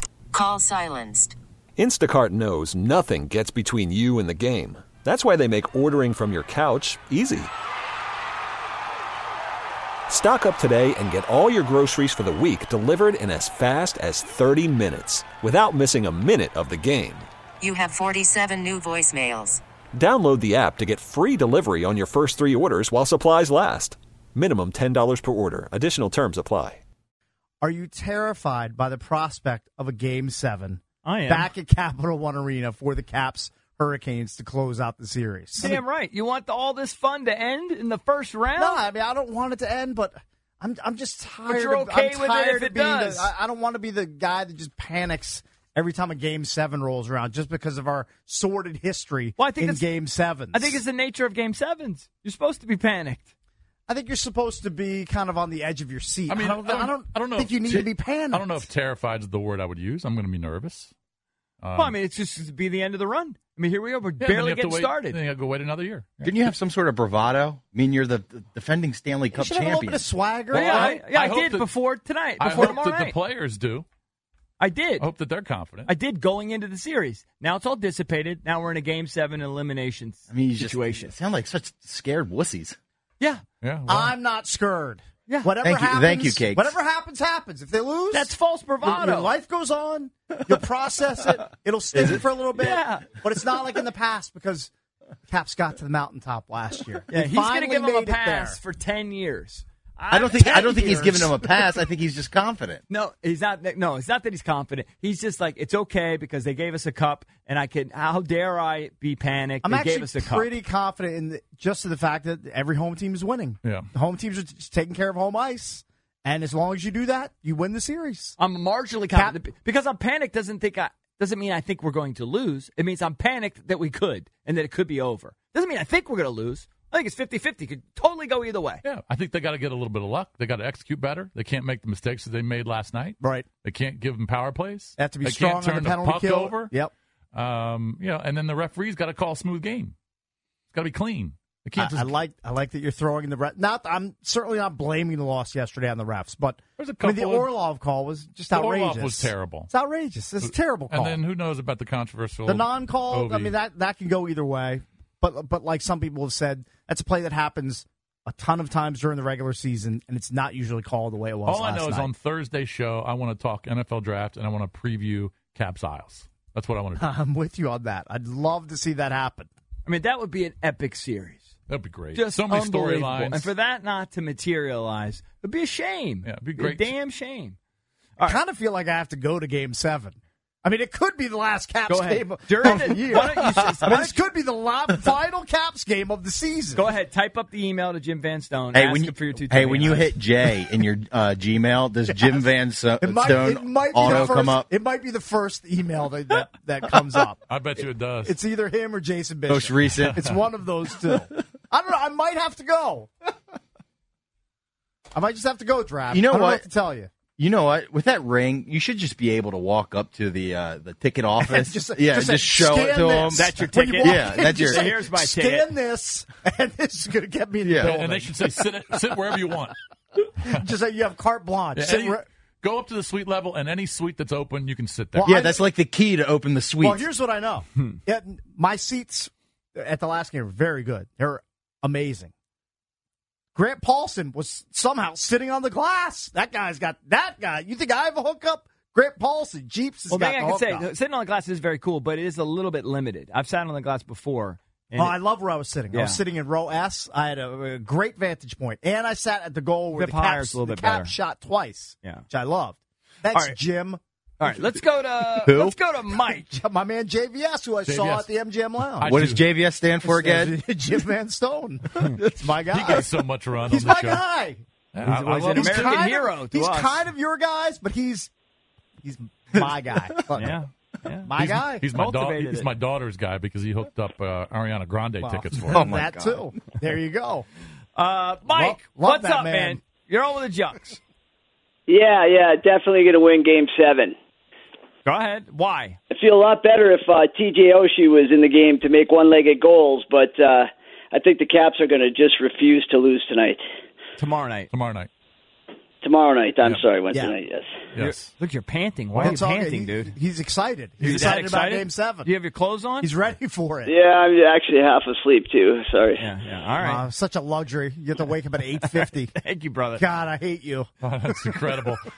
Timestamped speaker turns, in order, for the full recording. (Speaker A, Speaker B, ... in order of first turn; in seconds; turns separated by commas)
Speaker A: 0.3-1.4, Speaker B: 1.8-7.5, Speaker B: 10.1-17.3, Speaker A: 17.6-19.6, Speaker B: 19.9-26.8, Speaker C: 27.6-35.8, Speaker D: 31.0-31.5, Speaker D: 35.6-38.8, Speaker C: 38.6-50.8, Speaker D: 41.5-43.3, Speaker D: 49.4-53.3, Speaker C: 53.9-58.7, Speaker E: 56.3-60.9, Speaker E: 61.6-62.0, Speaker D: 61.7-65.2, Speaker E: 64.2-66.2, Speaker F: 66.2-70.1, Speaker C: 69.3-70.9, Speaker E: 70.5-71.7, Speaker D: 70.5-73.2, Speaker E: 72.4-73.8, Speaker D: 74.6-75.1, Speaker E: 75.0-75.9, Speaker D: 75.8-81.1, Speaker F: 80.3-82.8, Speaker E: 83.6-84.1, Speaker C: 83.9-94.7, Speaker F: 85.6-86.7, Speaker D: 88.1-89.3, Speaker D: 92.6-93.1, Speaker C: 95.3-98.6, Speaker D: 97.1-101.2, Speaker F: 100.1-102.8, Speaker C: 100.3-101.3, Speaker D: 102.9-110.5, Speaker C: 109.6-118.4, Speaker D: 118.4-128.8, Speaker C: 119.1-119.4, Speaker E: 128.8-136.7, Speaker C: 133.2-133.5, Speaker C: 135.0-136.9, Speaker E: 137.3-139.9, Speaker E: 140.7-142.1, Speaker C: 141.8-151.2, Speaker E: 146.8-147.5, Speaker E: 148.5-149.7, Speaker E: 150.4-153.5, Speaker C: 152.4-162.1, Speaker E: 161.4-167.1, Speaker C: 166.9-169.5, Speaker D: 169.8-171.5, Speaker E: 171.7-173.5, Speaker D: 172.1-177.6, Speaker E: 176.2-176.9, Speaker C: 178.2-186.9, Speaker D: 181.9-184.1, Speaker F: 183.7-184.1, Speaker D: 186.7-190.1, Speaker F: 188.7-194.7, Speaker C: 192.1-197.5, Speaker E: 197.5-198.3, Speaker C: 198.2-203.1, Speaker F: 199.5-200.3, Speaker E: 200.0-200.3, Speaker C: 205.1-207.1, Speaker F: 206.1-206.7, Speaker F: 207.4-214.9, Speaker C: 211.4-218.7, Speaker D: 213.3-215.7, Speaker F: 217.6-217.9, Speaker E: 217.8-219.8, Speaker C: 220.4-222.2, Speaker E: 221.8-225.3, Speaker C: 225.1-225.7, Speaker F: 225.2-227.0, Speaker C: 226.8-232.3, Speaker C: 233.5-240.9, Speaker D: 240.1-245.2, Speaker C: 245.0-254.0, Speaker D: 245.9-246.2, Speaker D: 249.9-251.2, Speaker D: 253.3-253.6, Speaker D: 254.4-256.5, Speaker F: 255.4-255.7, Speaker C: 256.3-259.1, Speaker E: 257.9-258.3, Speaker E: 258.9-259.4, Speaker F: 259.1-260.6, Speaker C: 260.0-263.1, Speaker E: 262.7-264.2, Speaker C: 263.7-264.6, Speaker E: 264.9-266.0, Speaker D: 265.0-267.1, Speaker C: 265.5-268.3, Speaker C: 269.0-270.6, Speaker F: 269.6-270.2, Speaker D: 270.4-272.7, Speaker C: 271.3-271.9, Speaker E: 271.4-275.9, Speaker C: 275.2-277.4, Speaker F: 275.7-276.5, Speaker D: 277.9-281.0, Speaker C: 278.5-279.8, Speaker G: 281.9-284.1, Speaker D: 285.0-286.0, Speaker G: 286.1-293.6, Speaker D: 294.2-294.7, Speaker E: 294.7-295.1, Speaker G: 296.0-297.8, Speaker C: 297.1-297.4, Speaker E: 297.9-298.3, Speaker D: 298.0-300.1, Speaker E: 299.1-299.4, Speaker C: 299.2-302.3, Speaker E: 301.0-301.3, Speaker D: 301.0-303.1, Speaker C: 303.0-303.9, Speaker G: 303.9-306.2, Speaker D: 306.2-307.0, Speaker C: 306.8-309.3, Speaker D: 308.9-310.0, Speaker C: 309.9-311.7, Speaker E: 311.0-312.0